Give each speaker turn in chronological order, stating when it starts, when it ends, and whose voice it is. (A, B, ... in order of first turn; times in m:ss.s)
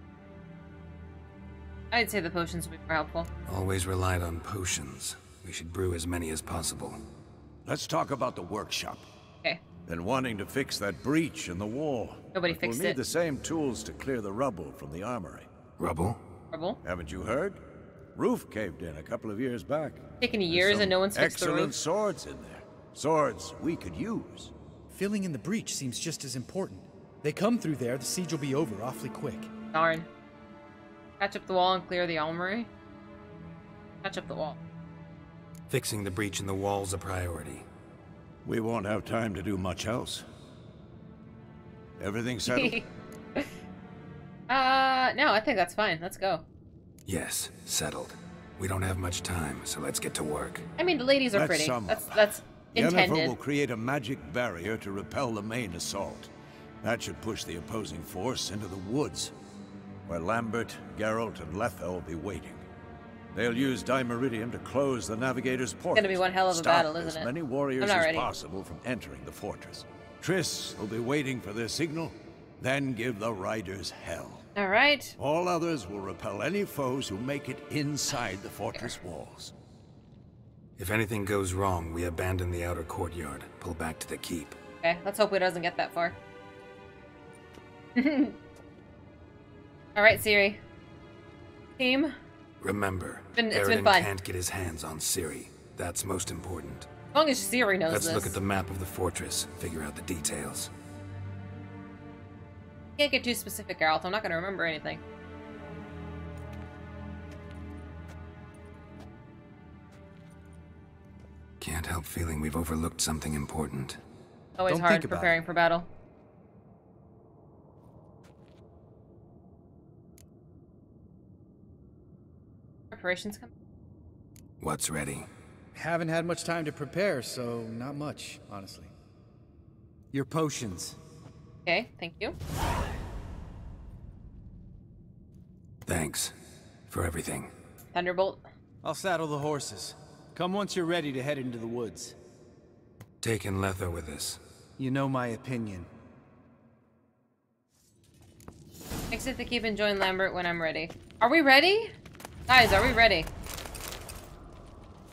0:01.9-0:03.3 A
0:03.5-0:07.0 B
0:07.7-0:09.0 C
0:09.9-0:15.5 C
0:12.3-0:13.0 A
0:15.8-0:16.2 B
0:16.5-0:16.8 A
0:16.8-0:17.6 C
0:18.1-0:24.5 C
0:20.2-0:21.8 A
0:24.9-0:29.5 D
0:29.7-0:30.1 A
0:31.2-0:32.7 A
0:34.0-0:34.6 A
0:35.7-0:37.7 B
0:38.4-0:40.2 C
0:42.0-0:42.8 C
0:42.5-0:42.8 A
0:44.5-0:46.4 A
0:47.1-0:50.7 B
0:50.8-0:53.4 A
0:51.3-0:56.3 C
0:56.8-0:59.3 C
1:00.1-1:02.6 C
1:03.3-1:14.5 C
1:05.9-1:08.3 A
1:14.6-1:15.2 A
1:15.2-1:19.5 C
1:20.8-1:24.6 B
1:24.8-1:26.2 A
1:28.0-1:28.4 A
1:30.0-1:30.6 A
1:31.8-1:32.2 A
1:32.6-1:36.9 B
1:33.4-1:34.1 A
1:37.1-1:38.4 A
1:37.9-1:40.7 B
1:43.0-1:45.0 A
1:51.6-1:54.0 B
1:54.6-1:55.9 A
1:54.7-1:55.3 D
2:02.9-2:03.5 A
2:04.6-2:05.3 B
2:05.8-2:08.9 D
2:10.1-2:11.0 D
2:11.7-2:12.4 A
2:15.9-2:16.4 B
2:16.9-2:17.5 B
2:17.9-2:18.4 A
2:18.8-2:22.2 D
2:23.2-2:24.4 B
2:24.8-2:25.9 D
2:29.1-2:31.9 A
2:32.5-2:33.3 A